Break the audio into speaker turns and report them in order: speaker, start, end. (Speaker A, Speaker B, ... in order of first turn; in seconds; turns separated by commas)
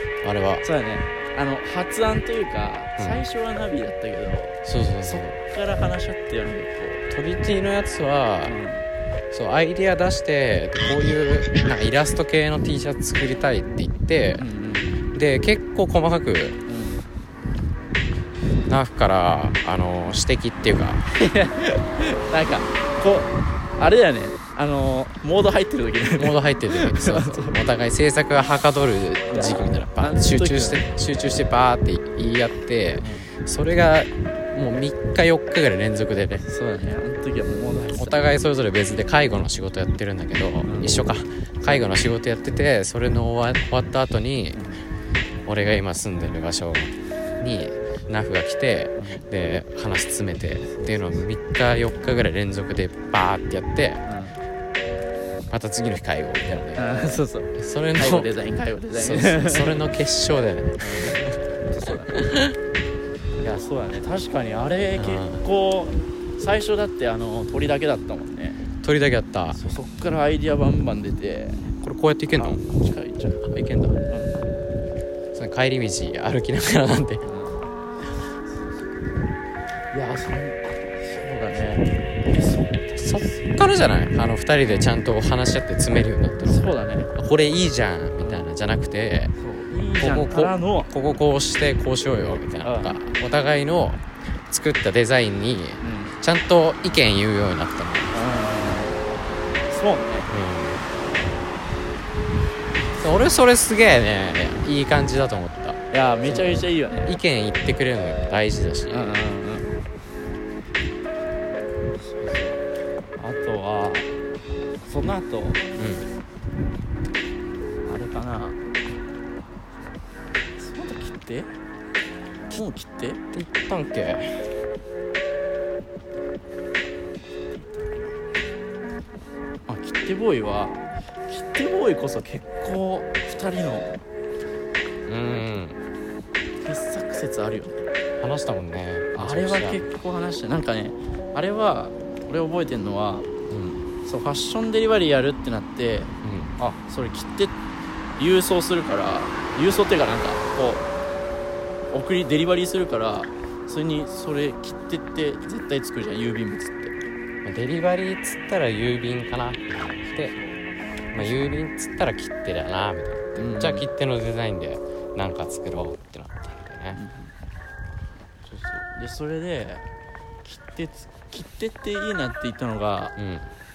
Speaker A: 0.2-0.6, Speaker B: 0.6-7.0, Speaker A: 3.0-3.2, Speaker A: 4.6-5.4, Speaker A: 7.1-8.6, Speaker B: 8.4-8.8, Speaker A: 9.3-14.4, Speaker B: 14.4-15.0, Speaker A: 15.1-16.6, Speaker B: 16.7-17.0, Speaker A: 18.7-21.1, Speaker B: 21.1-27.6, Speaker A: 26.1-36.4, Speaker B: 29.3-30.9, Speaker B: 33.0-33.3, Speaker B: 36.4-38.2, Speaker A: 38.0-44.6, Speaker B: 40.6-41.0, Speaker B: 44.5-44.8, Speaker A: 45.5-54.0, Speaker B: 49.0-49.2, Speaker B: 50.7-51.2, Speaker B: 54.0-54.4, Speaker A: 55.5-56.9, Speaker B: 56.8-59.8, Speaker A: 57.5-58.3, Speaker A: 58.9-61.3, Speaker B: 60.8-62.5, Speaker A: 61.9-62.5, Speaker B: 63.4-68.6, Speaker A: 65.0-65.4, Speaker A: 68.8-69.6, Speaker B: 69.5-71.7, Speaker A: 71.8-72.6, Speaker B: 72.3-74.5, Speaker A: 73.5-74.0, Speaker A: 75.3-77.2, Speaker B: 77.2-77.7, Speaker B: 79.9-83.6, Speaker A: 83.0-89.3, Speaker B: 86.5-87.1, Speaker B: 89.4-90.9, Speaker A: 90.0-98.2, Speaker B: 92.6-93.0, Speaker B: 95.8-96.2, Speaker B: 98.1-99.0, Speaker B: 99.7-100.3, Speaker A: 100.3-100.8, Speaker A: 103.0-109.2, Speaker B: 105.9-107.2, Speaker B: 108.9-109.7, Speaker B: 112.0-112.6, Speaker B: 113.2-114.1, Speaker B: 114.8-115.6, Speaker A: 115.8-116.1, Speaker B: 117.8-118.6, Speaker B: 120.6-121.5, Speaker B: 122.5-123.2, Speaker A: 123.3-124.5, Speaker B: 127.5-128.1, Speaker B: 129.7-134.0, Speaker A: 135.1-135.8, Speaker B: 136.6-137.9, Speaker A: 138.2-139.8, Speaker B: 139.1-143.3, Speaker A: 143.5-143.8, Speaker B: 144.0-147.5, Speaker A: 146.2-146.5, Speaker B: 148.2-150.8, Speaker B: 151.9-156.9, Speaker A: 157.4-160.3, Speaker B: 160.0-161.5, Speaker A: 161.1-167.0, Speaker B: 163.3-163.9, Speaker B: 166.9-167.3, Speaker B: 168.5-169.8, Speaker B: 170.4-173.2, Speaker A: 173.2-173.5